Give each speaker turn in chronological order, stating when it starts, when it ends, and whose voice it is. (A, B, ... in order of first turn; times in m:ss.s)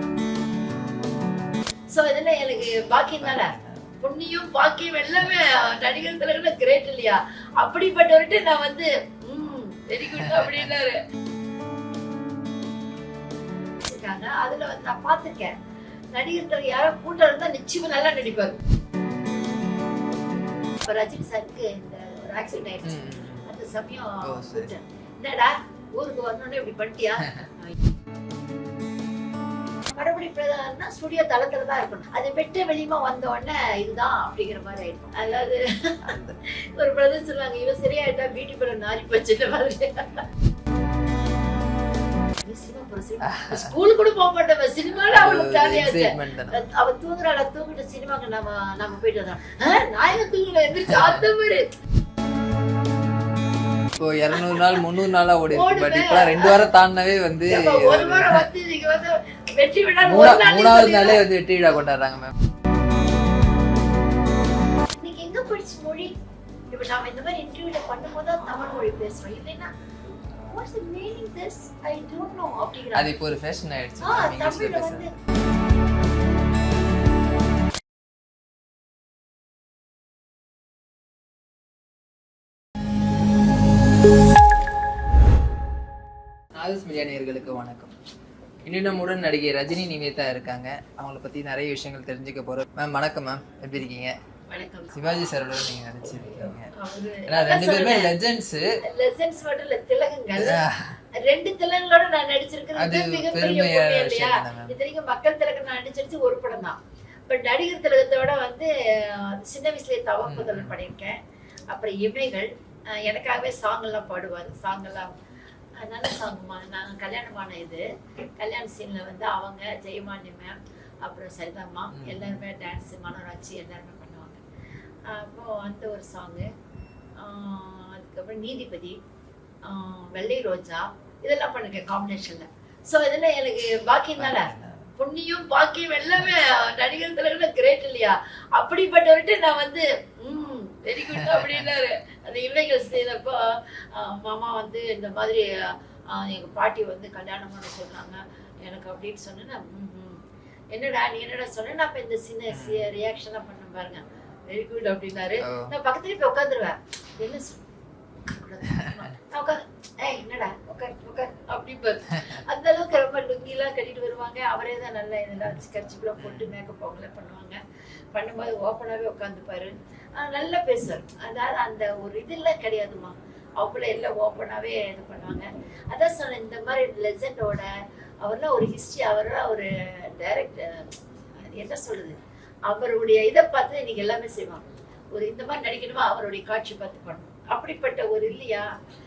0:01.9-0:11.0 A
0:03.2-0:03.8 B
0:10.0-0:10.8 B
0:13.8-0:15.5 A
0:16.1-0:18.6 A
0:20.8-0:27.8 A
0:22.8-0:23.5 B
0:24.3-0:24.7 B
0:29.9-0:40.2 A
0:36.0-0:36.4 B
0:42.4-0:51.7 A
0:43.3-0:43.7 B
0:45.1-0:46.6 B
0:50.7-0:51.3 B
0:54.0-0:58.5 B
0:54.3-0:54.8 A
0:55.5-0:56.6 A
0:57.5-1:01.2 A
1:00.0-1:02.3 B
1:05.0-1:06.1 A
1:06.7-1:09.7 A
1:10.5-1:13.1 A
1:12.9-1:15.1 B
1:14.0-1:15.1 A
1:26.6-1:27.9 B
1:28.7-1:34.2 B
1:34.5-1:35.3 A
1:34.9-1:36.7 B
1:36.2-1:38.1 A
1:37.3-1:38.8 B
1:38.8-1:40.6 A
1:40.4-1:41.0 B
1:41.2-1:46.8 A
1:42.8-1:44.8 B
1:47.3-1:51.2 A
1:50.3-1:50.8 B
1:51.7-1:55.2 A
1:55.8-1:57.8 A
1:58.4-2:04.4 A
2:01.9-2:02.4 B
2:05.1-2:06.5 A
2:07.2-2:09.0 A
2:09.6-2:37.6 A
2:14.2-2:14.9 B
2:21.1-2:21.7 B
2:32.5-2:32.9 B
2:35.4-2:35.7 B
2:38.2-2:47.6 A
2:38.7-2:39.1 B
2:42.1-2:42.4 B
2:46.2-2:46.5 B
2:48.1-2:57.7 A
2:58.2-3:08.7 A